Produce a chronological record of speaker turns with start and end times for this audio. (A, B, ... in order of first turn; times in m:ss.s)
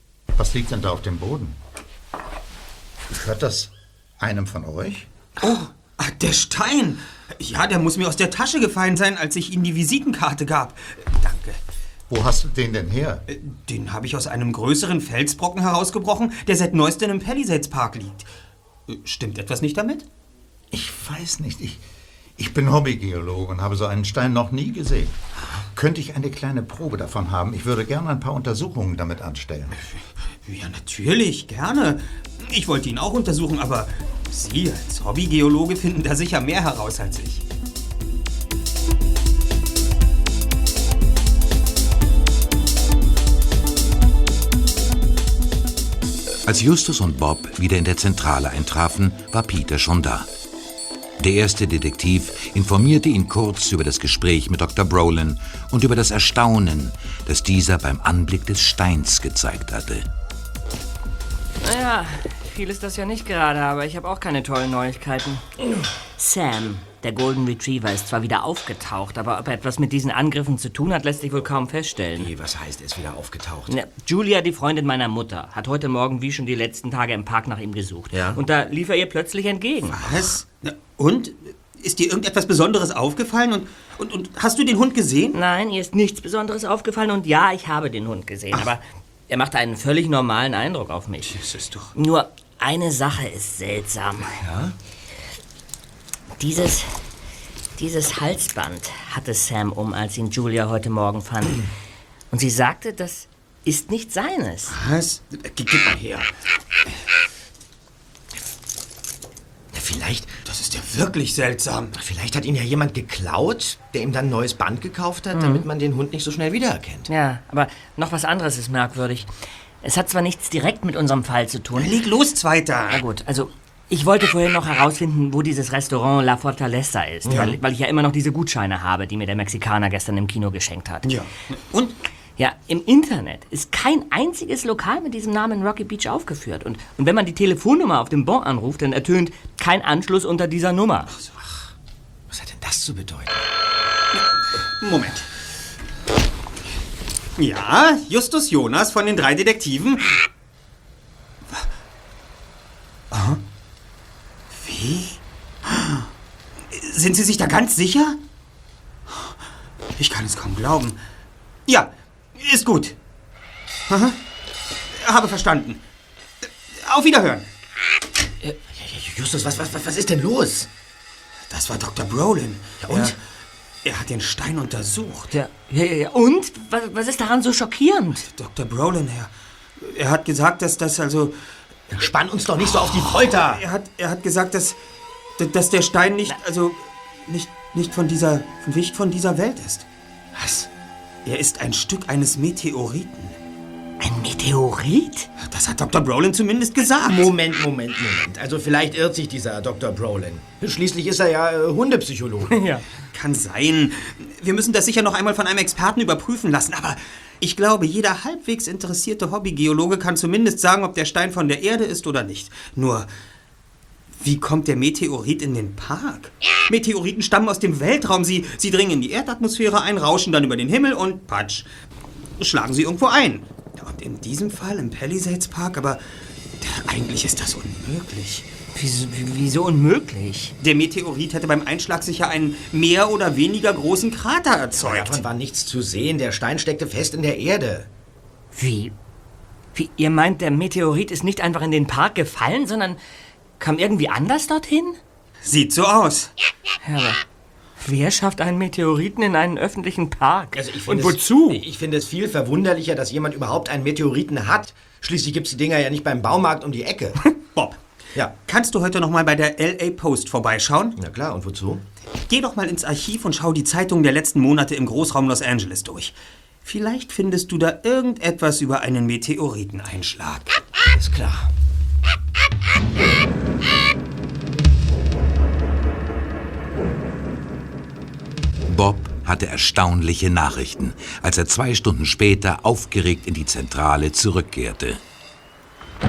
0:00.4-0:01.6 A
0:03.1-0:05.1 A
0:05.4-0:11.6 B
0:12.1-0:13.2 A
0:13.3-0:18.2 B
0:18.9-0:20.0 B
0:20.7-0:21.8 A
0:22.4-0:29.8 A
0:30.4-0:37.4 B
0:46.4-0:50.3 C
0:51.2-1:00.0 C
1:01.6-1:05.4 D
1:06.2-1:12.3 D
1:12.2-1:13.7 E
1:13.7-1:20.0 D
1:18.1-1:18.4 E
1:19.9-1:25.4 B
1:25.3-1:31.4 D
1:31.3-1:31.9 B
1:31.9-1:34.4 D
1:34.4-1:34.7 E
1:36.4-1:37.0 D
1:37.8-1:41.7 D
1:42.3-1:44.7 D
1:44.7-1:46.3 B
1:49.7-1:50.3 E
1:50.4-1:51.9 B
1:51.9-1:57.1 E
1:55.3-1:55.6 D
1:57.1-2:01.9 D
2:01.8-2:03.0 B
2:02.9-2:11.1 D
2:07.2-2:07.5 E
2:07.3-2:07.5 B
2:11.0-2:12.0 B
2:12.4-2:21.1 D
2:21.1-2:21.4 B
2:22.3-2:23.5 E
2:24.8-2:25.3 B
2:27.4-2:30.2 B
2:33.1-2:33.4 B
2:34.5-2:36.1 B
2:36.7-2:38.2 B
2:40.0-2:41.0 B
2:41.7-2:43.0 B
2:43.9-2:44.2 B
2:44.9-2:45.8 B
2:46.4-2:47.5 B
2:48.7-2:50.7 E
2:51.5-2:53.2 B
2:52.8-2:53.2 E
2:53.8-2:55.3 B
2:55.3-2:58.2 D
2:58.2-3:01.3 B
3:01.9-3:03.6 E
3:02.9-3:04.8 B
3:05.4-3:09.8 B
3:10.3-3:10.7 E
3:11.2-3:13.4 B
3:14.0-3:15.3 D
3:15.4-3:17.3 B
3:17.0-3:22.5 E
3:22.5-3:22.8 D
3:23.1-3:33.1 B
3:34.2-3:41.7 B
3:42.4-3:46.0 B
3:46.6-3:48.5 B
3:48.7-3:50.5 D
3:50.6-3:55.2 B
3:54.7-3:57.9 E
3:58.5-3:58.9 D
3:59.7-4:03.0 D
4:03.6-4:05.0 D
4:05.4-4:06.3 B
4:06.8-4:07.2 D
4:07.8-4:11.6 D
4:10.5-4:17.2 E
4:17.5-4:17.8 B
4:18.5-4:20.9 B
4:21.0-4:21.8 E
4:22.3-4:30.5 B
4:30.9-4:31.5 E
4:38.7-4:45.0 C